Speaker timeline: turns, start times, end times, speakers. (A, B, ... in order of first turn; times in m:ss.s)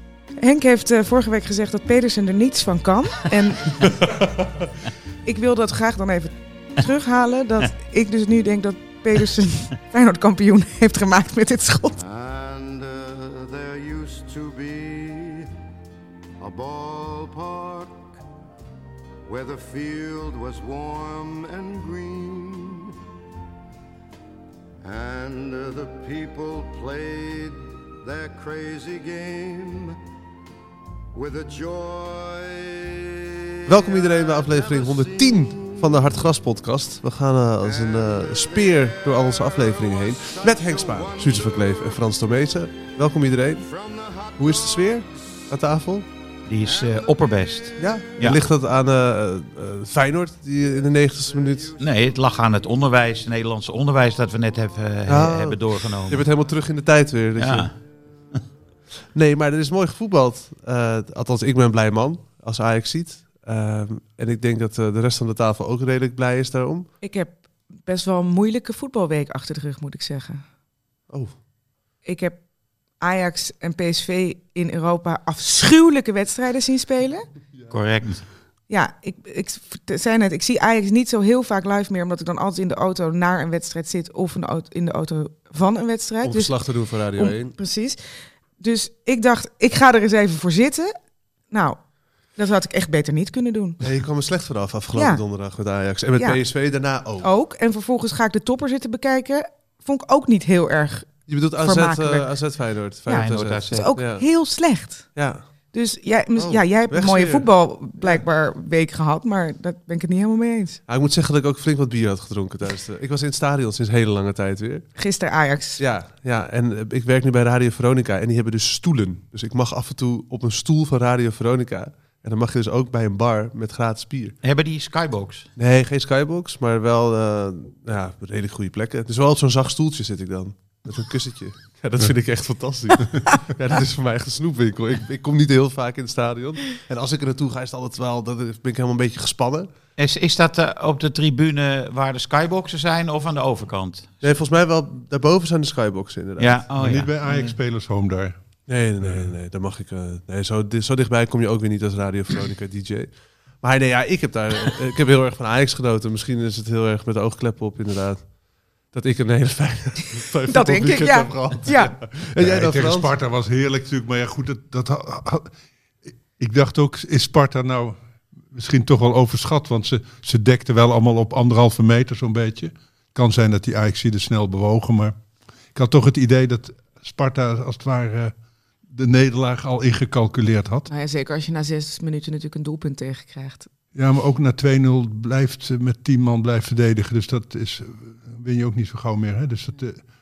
0:00.4-0:03.9 A
0:05.2-0:12.0 A
0:12.0-0:15.5 B
0:16.4-0:18.2 B
0:19.3-0:22.9 B
0:24.8-0:30.0 B
0:31.1-0:36.3 B
0:33.7-0:43.7 C
0:37.6-0:42.1 B
0:43.6-0:45.5 B
0:44.4-0:46.1 C
0:46.5-0:48.4 D
0:46.7-0:47.9 B
0:47.8-0:51.8 C
0:50.8-0:53.2 B
0:51.8-0:56.3 D
0:55.1-0:57.7 C
0:57.4-0:57.7 D
0:59.1-1:06.9 C
1:07.0-1:10.4 A
1:12.0-1:12.4 A
1:13.0-1:17.3 A
1:17.7-1:18.2 D
1:18.7-1:26.5 A
1:26.2-1:27.5 C
1:27.2-1:28.0 A
1:28.6-1:30.9 A
1:31.5-1:31.8 A
1:32.4-1:33.8 A
1:33.8-1:37.3 C
1:35.0-1:35.2 A
1:37.2-1:42.3 A
1:41.3-1:44.2 C
1:43.1-1:45.1 A
1:43.1-1:43.9 D
1:45.2-1:45.4 C
1:45.7-1:50.8 A
1:46.4-1:47.5 C
1:50.9-1:54.9 C
1:55.0-1:55.8 A
1:55.8-2:04.4 C
2:04.4-2:05.5 D
2:05.6-2:19.7 C
2:20.0-2:24.2 D
2:24.2-2:26.6 C
2:26.4-2:27.6 D
2:26.8-2:28.4 E
2:28.7-2:38.3 C
2:29.0-2:29.3 E
2:38.9-2:43.1 C
2:40.5-2:41.9 A
2:42.4-2:45.5 E
2:46.4-2:48.0 E
2:48.5-2:55.1 E
2:55.7-2:58.3 E
2:58.9-3:00.9 E
3:00.9-3:03.7 A
3:03.9-3:10.0 E